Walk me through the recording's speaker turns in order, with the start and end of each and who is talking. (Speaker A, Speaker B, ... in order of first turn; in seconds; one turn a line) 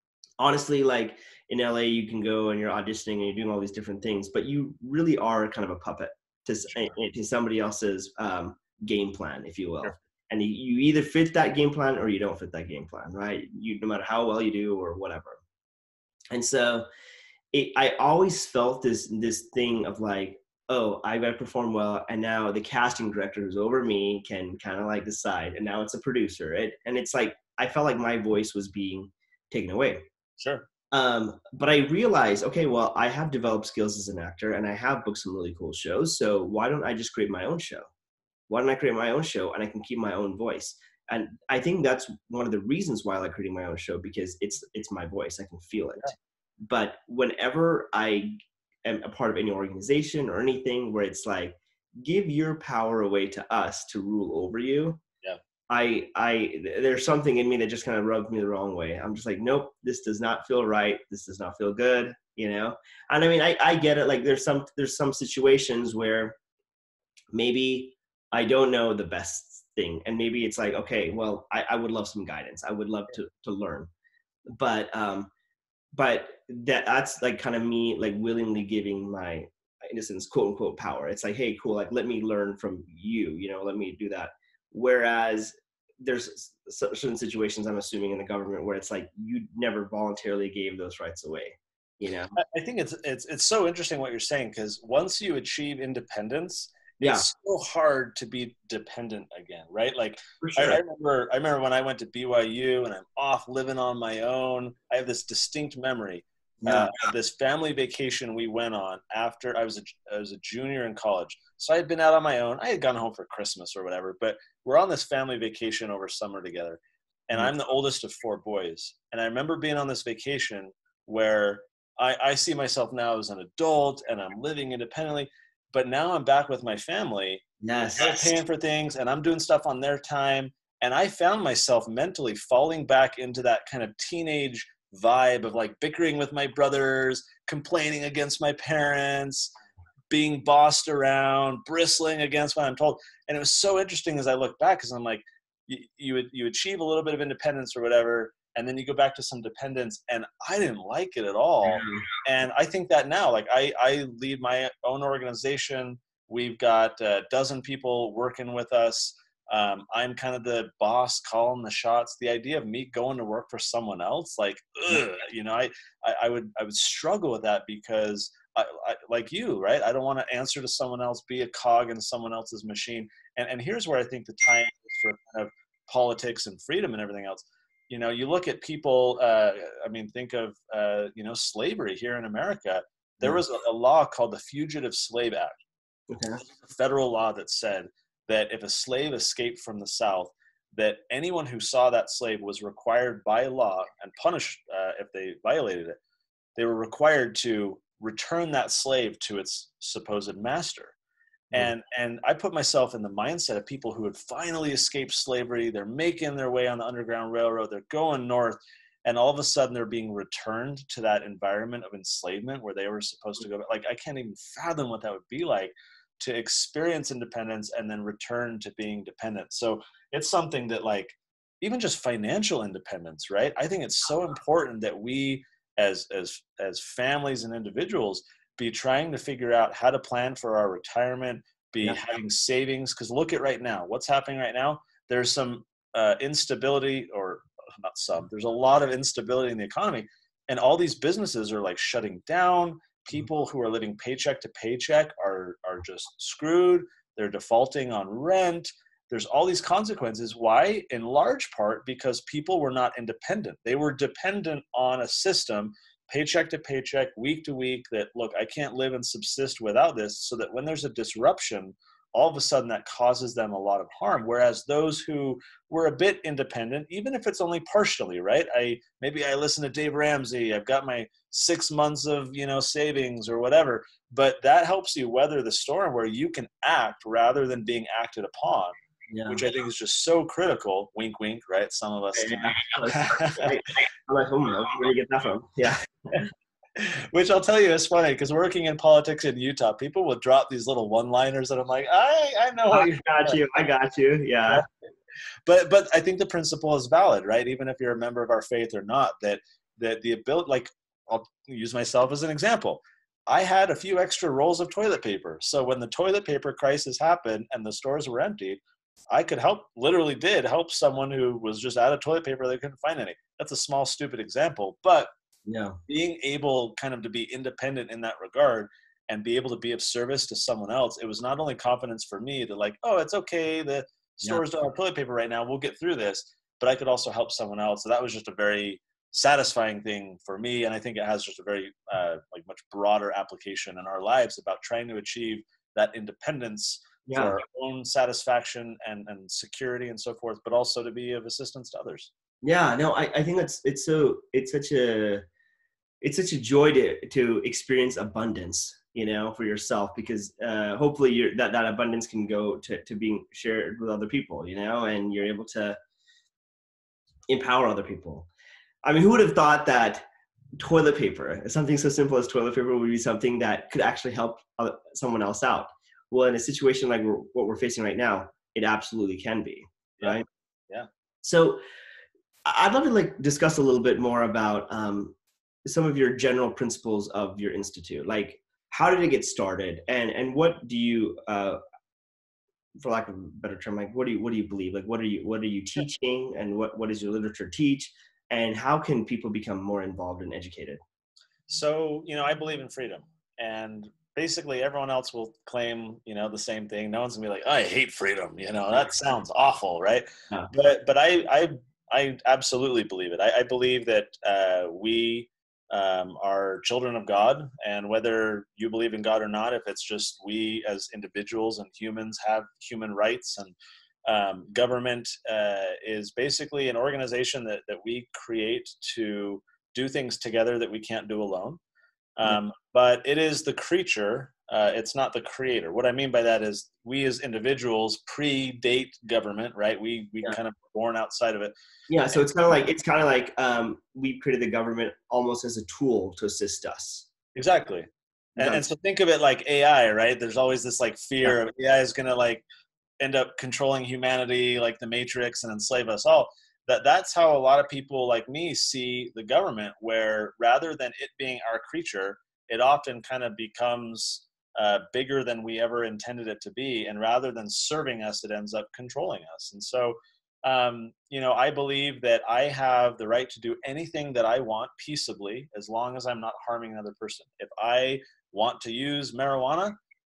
Speaker A: 0.4-15.4
Speaker A: 16.3-16.9
Speaker A: 17.5-30.0
Speaker B: 30.4-30.7
Speaker A: 30.9-37.9
Speaker A: 38.5-55.0
Speaker A: 55.7-66.3
Speaker A: 67.3-73.9
Speaker A: 74.5-75.3
Speaker A: 75.9-92.3
Speaker B: 92.3-127.4
Speaker A: 97.0-97.2
Speaker A: 100.4-100.8
Speaker A: 106.6-107.0
Speaker A: 127.6-128.3
Speaker B: 128.0-139.5
Speaker B: 140.1-185.6
Speaker A: 151.6-152.1
Speaker A: 186.1-186.4
Speaker B: 186.4-196.0
Speaker B: 196.6-200.9
Speaker B: 201.5-278.7
Speaker A: 279.1-279.4
Speaker B: 279.3-283.6
Speaker A: 282.1-286.2
Speaker B: 286.8-293.5
Speaker A: 292.7-294.6
Speaker B: 295.4-315.1
Speaker A: 315.4-315.8
Speaker B: 315.9-342.1
Speaker A: 337.1-337.3
Speaker A: 342.4-345.2
Speaker A: 346.0-355.8
Speaker A: 357.3-358.3
Speaker A: 358.8-360.1
Speaker A: 360.6-370.2
Speaker B: 370.0-370.9
Speaker A: 371.2-371.6
Speaker A: 372.4-381.6
Speaker A: 382.8-390.8
Speaker B: 391.5-421.6
Speaker B: 422.2-431.5
Speaker A: 431.9-437.1
Speaker B: 437.3-442.4
Speaker A: 438.4-438.7
Speaker B: 443.0-469.8